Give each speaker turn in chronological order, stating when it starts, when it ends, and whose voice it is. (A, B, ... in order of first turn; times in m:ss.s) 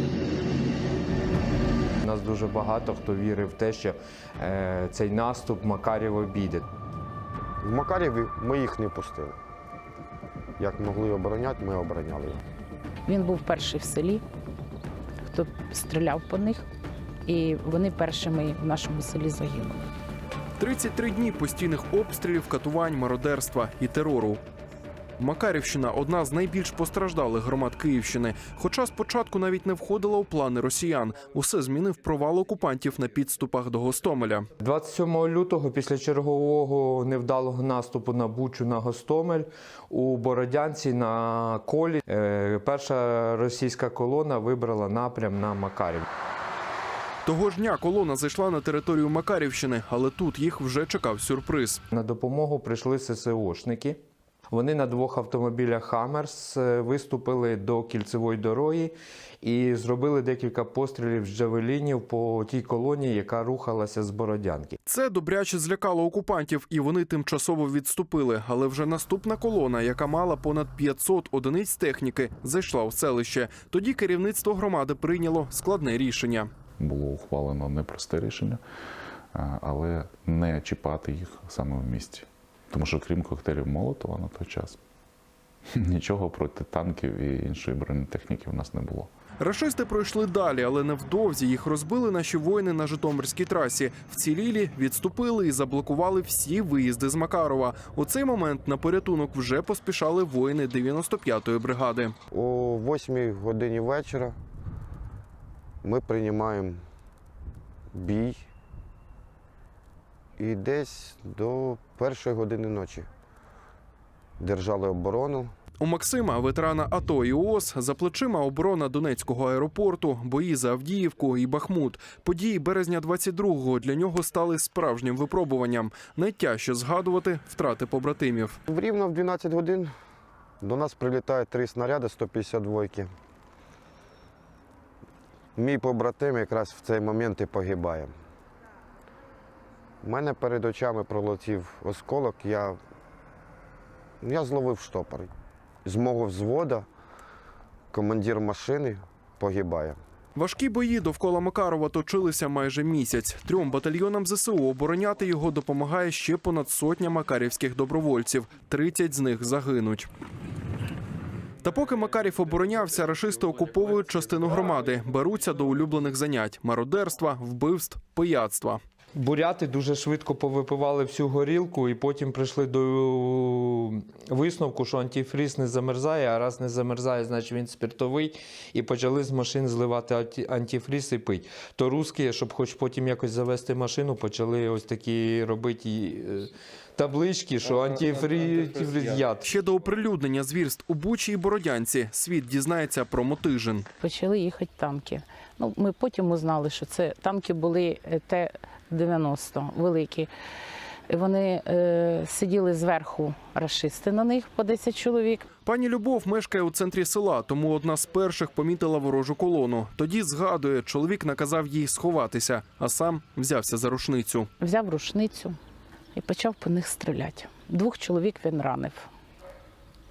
0:02.0-0:06.6 A
0:07.6-0:09.4 B
0:10.6-0:12.4 B
0:13.0-0:14.2 C
0:15.3-0:16.6 C
0:17.2-0:19.8 C
0:20.6-0:24.4 D
0:25.2-0:34.5 D
0:34.6-0:46.0 A
0:47.2-0:51.8 D
0:51.9-0:54.0 A
0:54.5-1:04.8 A
1:04.8-1:16.5 D
1:16.8-1:18.6 E
1:19.3-1:24.8 E
1:25.8-1:29.1 E
1:29.4-1:42.1 D
1:42.3-1:44.4 B
1:45.8-1:46.8 B
1:47.9-1:48.4 B
1:50.4-1:53.1 B
1:54.4-1:55.5 B
1:55.8-2:08.6 D
2:08.7-2:09.9 B
2:10.6-2:13.1 B
2:15.6-2:18.1 B
2:20.0-2:22.8 B
2:24.2-2:25.3 B
2:25.8-2:26.8 B
2:27.9-2:30.0 B
2:30.3-2:40.1 D
2:41.6-2:48.8 D
2:49.2-3:09.5 A
3:09.4-3:13.8 D
3:14.0-3:20.3 C
3:21.1-3:25.5 C
3:25.6-3:34.5 D
3:34.6-3:35.6 C
3:36.1-3:39.1 C